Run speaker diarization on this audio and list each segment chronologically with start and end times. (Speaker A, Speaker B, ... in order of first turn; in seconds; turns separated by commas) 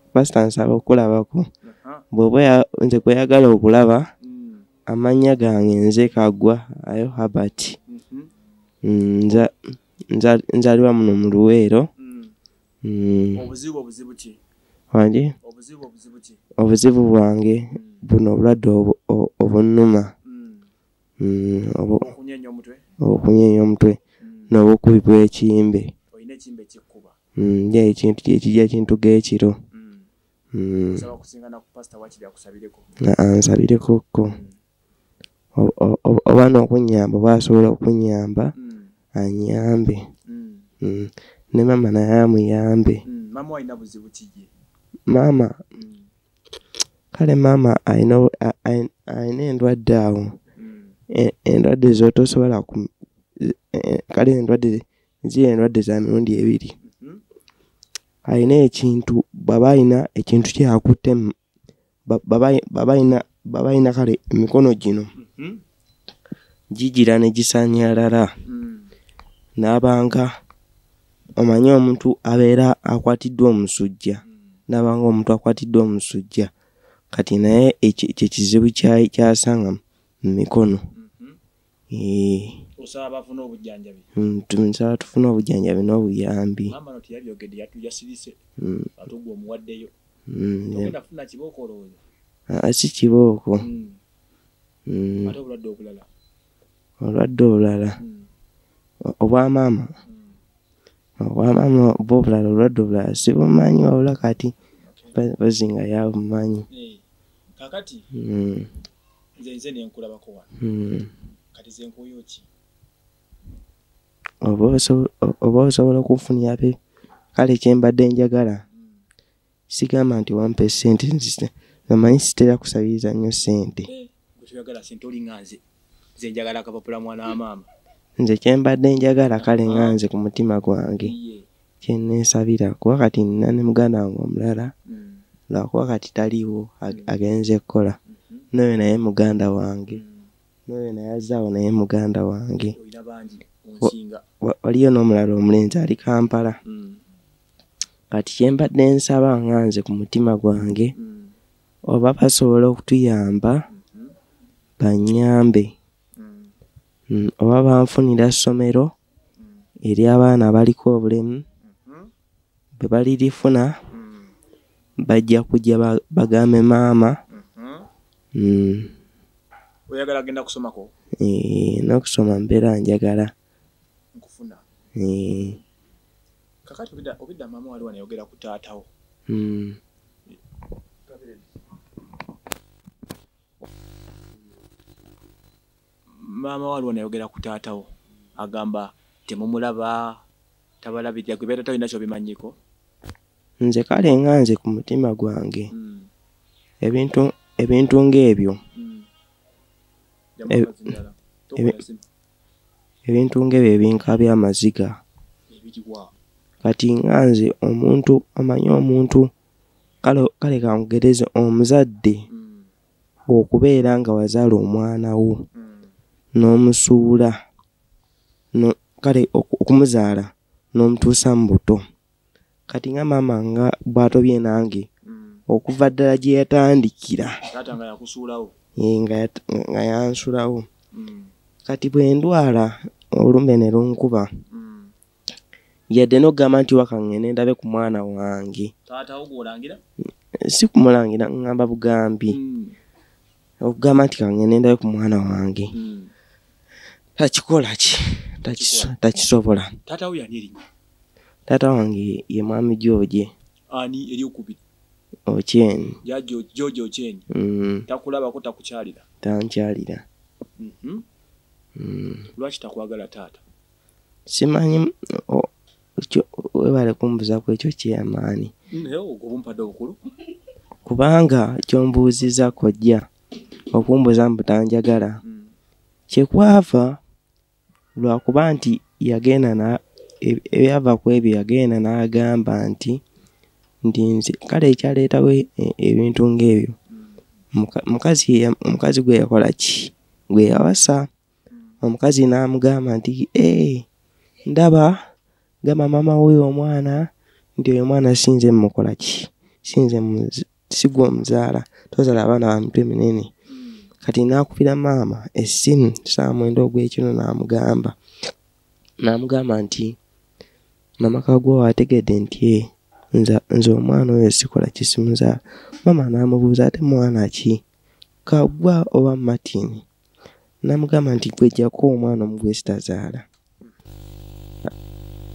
Speaker A: 0.1-1.5, Speaker B: 1.6-2.0, Speaker A: 2.1-4.1, Speaker B: 4.2-4.7, Speaker A: 4.9-7.8, Speaker B: 7.9-8.3, Speaker A: 8.8-9.5, Speaker A: 10.1-11.9, Speaker B: 12.0-12.3, Speaker A: 12.8-13.4, Speaker B: 13.3-14.4, Speaker A: 14.9-15.3, Speaker B: 15.4-16.4, Speaker A: 16.6-20.1, Speaker B: 17.7-18.0, Speaker B: 20.2-20.7, Speaker A: 21.2-22.1, Speaker B: 21.9-22.8, Speaker A: 23.0-24.0, Speaker B: 24.2-24.5, Speaker A: 24.5-25.9, Speaker B: 26.1-27.1, Speaker A: 27.4-29.6, Speaker B: 29.7-30.1, Speaker A: 30.5-31.1, Speaker B: 30.9-32.9, Speaker A: 33.0-34.4, Speaker B: 34.2-34.5, Speaker A: 35.5-38.5, Speaker B: 38.6-38.9, Speaker A: 39.1-40.0, Speaker B: 40.3-40.7, Speaker A: 40.8-43.0, Speaker B: 43.0-44.5, Speaker A: 45.1-45.6, Speaker B: 45.8-46.0, Speaker A: 47.1-50.4, Speaker B: 50.6-50.9, Speaker A: 51.1-52.9, Speaker A: 53.4-56.7, Speaker B: 56.8-57.2, Speaker A: 58.2-61.3, Speaker A: 62.1-65.1, Speaker B: 65.2-65.6, Speaker A: 66.7-68.3, Speaker B: 68.5-68.9, Speaker A: 69.6-70.3, Speaker A: 71.4-76.5, Speaker B: 74.3-74.5, Speaker A: 77.1-80.8, Speaker B: 80.9-81.4, Speaker A: 81.9-82.6, Speaker B: 82.8-84.1, Speaker A: 84.2-86.8, Speaker B: 86.7-88.4, Speaker A: 88.6-88.9, Speaker B: 89.0-89.9, Speaker A: 90.3-90.9, Speaker B: 90.7-92.0, Speaker A: 92.5-93.7, Speaker B: 93.6-94.0, Speaker A: 94.9-95.3, Speaker B: 95.2-96.1, Speaker A: 97.0-98.0, Speaker B: 98.0-98.3, Speaker A: 99.0-99.9, Speaker B: 100.1-100.3, Speaker A: 101.2-104.5, Speaker B: 104.8-105.1, Speaker A: 105.1-106.7, Speaker B: 106.7-107.0, Speaker B: 107.6-108.0, Speaker A: 108.1-108.7, Speaker B: 109.4-110.5, Speaker A: 110.6-111.1, Speaker B: 111.5-112.5, Speaker A: 114.4-116.8, Speaker A: 117.3-118.6, Speaker A: 119.7-123.9, Speaker B: 123.9-125.6, Speaker B: 126.2-127.7, Speaker A: 128.2-131.1, Speaker B: 129.5-130.0, Speaker B: 131.0-131.4, Speaker A: 131.8-134.7, Speaker B: 134.9-135.2, Speaker A: 135.5-138.0, Speaker B: 138.1-138.5, Speaker A: 138.5-140.0, Speaker B: 139.9-140.3, Speaker A: 140.7-142.8, Speaker B: 142.8-144.2, Speaker A: 144.4-146.6, Speaker B: 146.6-147.0, Speaker A: 148.1-150.9, Speaker B: 150.9-151.3, Speaker A: 151.8-153.6, Speaker B: 153.7-154.1, Speaker A: 154.8-155.7, Speaker B: 156.2-156.5, Speaker A: 157.1-158.9, Speaker A: 159.8-161.4, Speaker B: 161.6-162.1, Speaker A: 162.8-163.8, Speaker B: 163.9-164.3, Speaker A: 165.0-167.2, Speaker B: 167.3-167.9, Speaker A: 168.3-168.9, Speaker B: 169.9-170.9, Speaker A: 171.2-173.3, Speaker B: 174.1-174.6, Speaker A: 175.0-175.6, Speaker B: 176.7-178.9, Speaker A: 179.3-179.8, Speaker B: 181.1-181.4, Speaker B: 186.2-190.2, Speaker B: 190.8-192.6, Speaker A: 193.6-195.7, Speaker B: 195.7-196.1, Speaker A: 196.8-198.6, Speaker B: 198.8-199.1, Speaker B: 200.4-202.0, Speaker A: 203.0-205.0, Speaker B: 205.5-206.1, Speaker A: 206.6-209.3, Speaker A: 210.0-212.2, Speaker B: 212.3-212.7, Speaker A: 213.3-215.4, Speaker B: 215.6-215.9, Speaker A: 216.3-217.4, Speaker A: 218.5-221.8, Speaker A: 222.7-224.9, Speaker B: 225.1-225.4, Speaker A: 225.5-227.4, Speaker B: 227.5-228.5, Speaker A: 228.8-230.7, Speaker B: 230.9-231.3, Speaker A: 231.7-234.3, Speaker B: 234.5-234.9, Speaker A: 235.9-238.7, Speaker B: 238.9-239.8, Speaker A: 240.4-242.4, Speaker B: 242.3-242.8, Speaker A: 243.6-245.7, Speaker B: 245.7-246.1, Speaker A: 247.2-249.7, Speaker B: 248.5-248.9, Speaker B: 249.8-250.6, Speaker A: 251.5-253.3, Speaker B: 253.7-254.6, Speaker A: 255.3-256.0, Speaker B: 256.0-257.2, Speaker A: 257.3-257.9, Speaker B: 257.9-259.0, Speaker A: 259.2-260.0, Speaker B: 260.6-261.0, Speaker A: 261.8-262.3, Speaker B: 262.4-263.4, Speaker A: 264.3-268.5, Speaker B: 268.7-270.0, Speaker A: 270.9-273.1, Speaker A: 273.7-275.2, Speaker B: 275.2-275.5, Speaker A: 276.1-277.0, Speaker A: 278.0-283.0, Speaker A: 283.9-286.8, Speaker A: 287.5-291.1, Speaker A: 291.8-293.9, Speaker A: 294.4-295.1, Speaker A: 295.6-303.3, Speaker B: 303.5-303.8, Speaker A: 304.0-307.9, Speaker A: 309.0-309.9, Speaker A: 311.0-317.6, Speaker A: 318.2-319.8, Speaker A: 320.6-323.2